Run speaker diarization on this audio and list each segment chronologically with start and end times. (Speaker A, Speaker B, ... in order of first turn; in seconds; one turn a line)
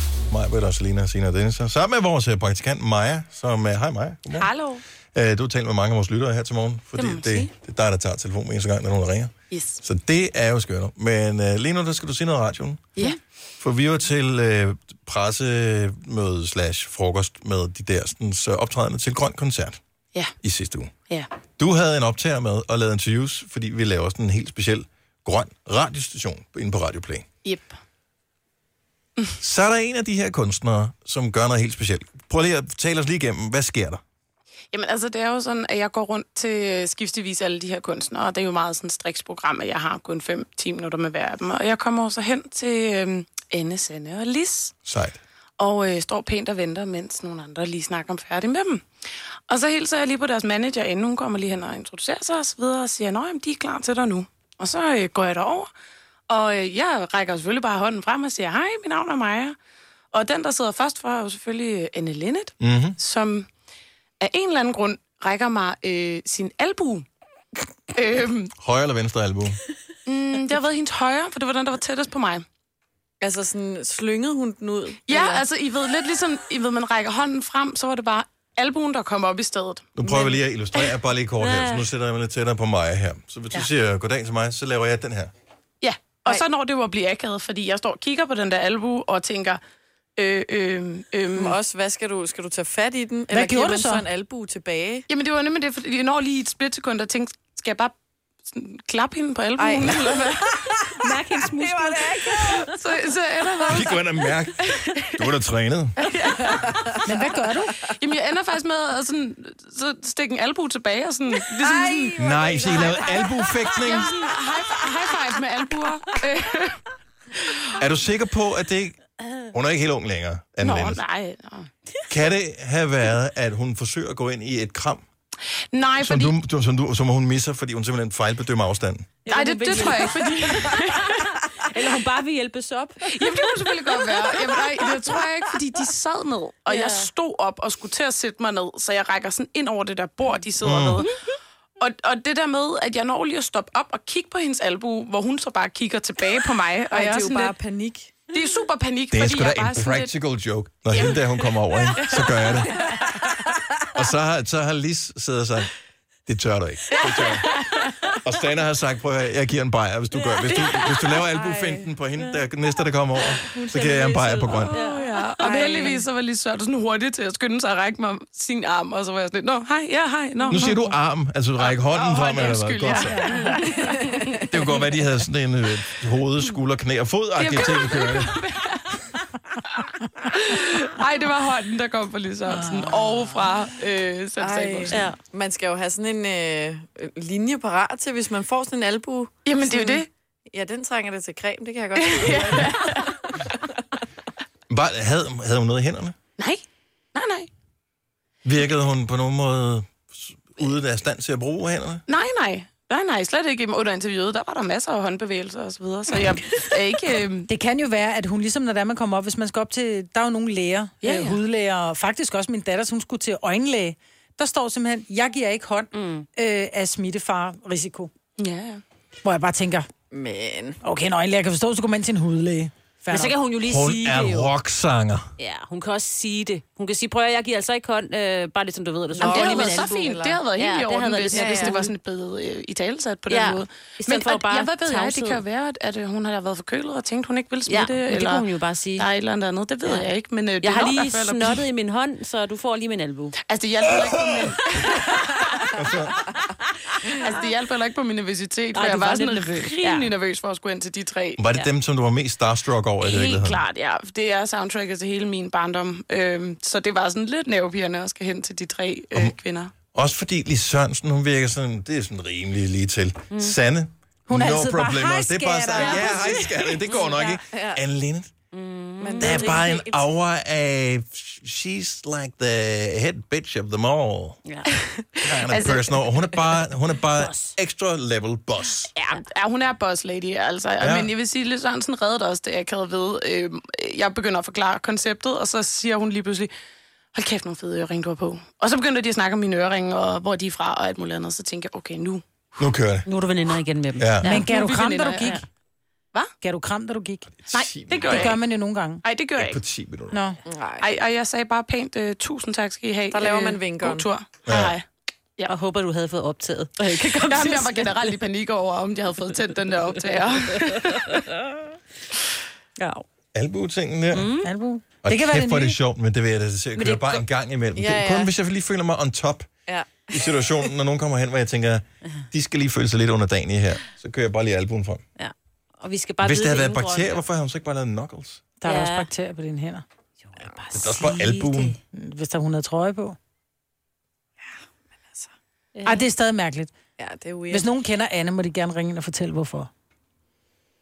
Speaker A: 0.3-4.5
Speaker B: 4.3-4.8
Speaker A: 5.1-13.1
Speaker B: 7.0-7.5
Speaker B: 9.5-9.8
Speaker A: 13.6-19.8
Speaker A: 20.4-20.9
Speaker A: 21.6-27.2
Speaker B: 27.4-27.7
Speaker A: 29.4-34.0
Speaker B: 34.7-44.7
Speaker A: 44.9-45.2
Speaker B: 45.6-48.8
Speaker B: 49.5-55.7
Speaker B: 56.3-59.5
Speaker B: 60.1-63.5
Speaker A: 62.6-63.0
Speaker B: 64.2-67.1
Speaker B: 67.9-68.5
Speaker A: 68.6-69.6
Speaker B: 70.0-72.4
Speaker C: 73.2-75.5
Speaker B: 75.0-80.2
Speaker A: 80.0-85.3
Speaker D: 81.4-81.8
Speaker B: 85.8-89.6
Speaker B: 90.2-91.6
Speaker C: 91.3-95.0
Speaker E: 93.3-94.0
Speaker B: 95.1-97.9
Speaker B: 98.5-105.2
Speaker C: 99.5-102.6
Speaker A: 103.7-106.0
Speaker B: 106.0-107.0
Speaker E: 107.0-107.8
Speaker B: 107.8-113.2
Speaker C: 111.6-113.5
Speaker A: 112.2-114.2
Speaker B: 113.7-116.8
Speaker B: 117.4-117.8
Speaker A: 117.8-119.0
Speaker A: 119.5-121.0
Speaker B: 120.6-121.7
Speaker A: 122.1-125.0
Speaker B: 125.7-126.3
Speaker A: 126.0-129.1
Speaker D: 129.2-133.5
Speaker B: 129.3-131.8
Speaker B: 133.1-141.1
Speaker A: 140.6-141.1
Speaker B: 141.8-147.5
Speaker C: 146.9-148.1
Speaker B: 148.3-150.1
Speaker A: 149.1-152.8
Speaker B: 150.9-152.8
Speaker A: 153.8-155.7
Speaker A: 156.2-157.6
Speaker B: 156.9-157.9
Speaker A: 158.2-164.8
Speaker B: 160.5-160.8
Speaker D: 160.6-161.0
Speaker B: 163.5-170.9
Speaker D: 164.5-166.0
Speaker A: 170.5-173.4
Speaker B: 171.6-174.9
Speaker A: 174.3-178.4
Speaker B: 177.3-179.0
Speaker B: 179.6-185.1
Speaker C: 184.4-193.4
Speaker D: 184.9-185.2
Speaker B: 189.4-190.1
Speaker B: 191.9-193.2
Speaker A: 194.7-196.1
Speaker B: 196.4-196.6
Speaker B: 197.1-197.5
Speaker A: 198.4-202.0
Speaker B: 202.1-207.5
Speaker E: 207.5-218.1
Speaker B: 211.0-211.4
Speaker D: 215.9-216.2
Speaker B: 218.4-218.8
Speaker E: 219.2-219.9
Speaker C: 220.1-220.8
Speaker E: 220.8-223.3
Speaker D: 223.1-224.5
Speaker A: 223.6-225.3
Speaker D: 225.4-231.9
Speaker B: 229.2-241.6
Speaker C: 229.2-230.4
Speaker C: 231.3-231.7
Speaker D: 233.3-235.4
Speaker D: 237.7-239.1
Speaker D: 240.6-243.4
Speaker B: 243.4-245.7
Speaker A: 245.7-246.2
Speaker B: 247.0-251.4
Speaker D: 248.7-250.1
Speaker A: 251.4-253.6
Speaker B: 253.0-259.7
Speaker A: 259.9-268.3
Speaker E: 264.3-267.4
Speaker D: 266.9-267.2
Speaker C: 267.5-267.8
Speaker D: 268.5-269.4
Speaker C: 269.0-270.0
Speaker A: 269.2-274.4
Speaker D: 274.4-274.8
Speaker A: 275.2-278.9
Speaker B: 275.4-276.2
Speaker D: 277.1-277.5
Speaker B: 278.9-286.5
Speaker A: 280.8-281.1
Speaker B: 287.1-292.2
Speaker A: 292.6-293.1
Speaker D: 293.1-294.5
Speaker A: 294.0-294.3
Speaker E: 294.2-295.4
Speaker B: 294.2-295.4
Speaker E: 296.4-297.3
Speaker A: 297.4-298.4
Speaker B: 297.5-298.4
Speaker E: 298.0-299.0
Speaker B: 299.0-299.6
Speaker A: 299.4-300.2
Speaker E: 300.1-300.4
Speaker C: 300.4-300.9
Speaker B: 300.8-304.9
Speaker C: 303.1-304.1
Speaker A: 304.5-304.7
Speaker D: 305.5-308.1
Speaker B: 307.1-311.2
Speaker E: 312.8-313.0
Speaker A: 313.3-314.3
Speaker D: 314.1-314.5
Speaker E: 314.4-315.8
Speaker A: 315.0-319.5
Speaker B: 316.8-317.2
Speaker C: 317.7-318.3
Speaker C: 319.7-320.3
Speaker A: 320.1-325.0
Speaker D: 325.2-327.2
Speaker A: 326.2-328.4
Speaker E: 328.6-329.8
Speaker D: 328.6-329.1
Speaker D: 330.3-331.8
Speaker A: 330.7-331.8
Speaker E: 331.9-333.2
Speaker D: 335.8-336.1
Speaker E: 335.8-336.7
Speaker C: 337.0-337.7
Speaker E: 337.5-339.7